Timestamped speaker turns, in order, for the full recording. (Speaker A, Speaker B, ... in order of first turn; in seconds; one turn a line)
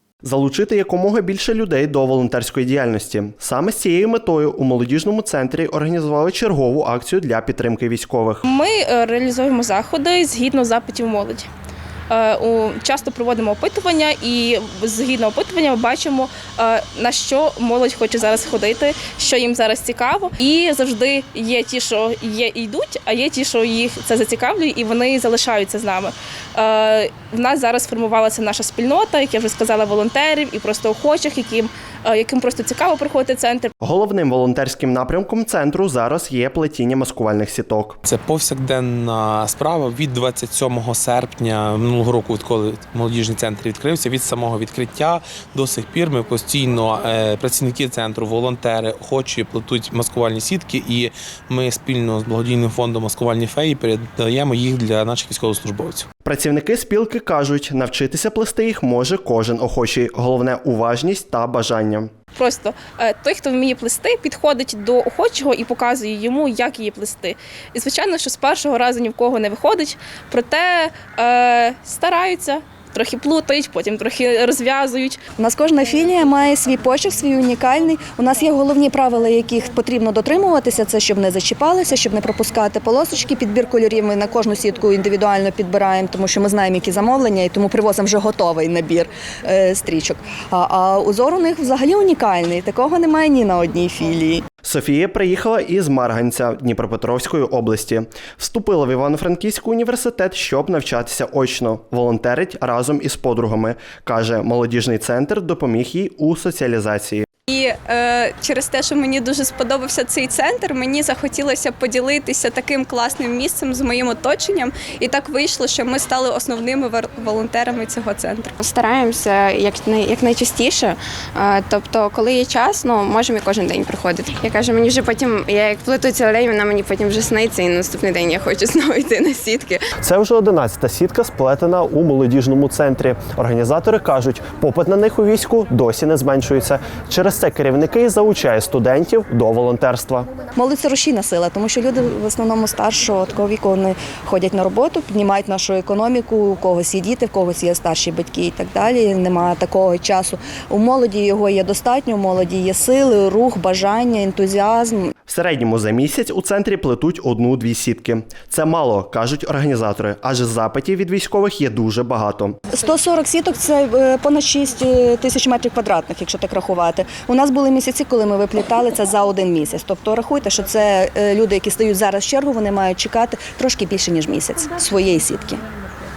Speaker A: 0.2-8.4
Speaker B: 8.5-11.5
Speaker B: 12.1-33.7
Speaker A: 33.8-38.0
Speaker C: 38.0-56.1
Speaker A: 56.2-62.1
Speaker B: 62.4-75.2
Speaker D: 75.4-94.4
Speaker A: 94.6-107.2
Speaker E: 107.5-118.5
Speaker F: 118.6-129.8
Speaker A: 130.0-140.3
Speaker D: 140.6-155.1
Speaker A: 155.3-162.6
Speaker D: 162.7-175.6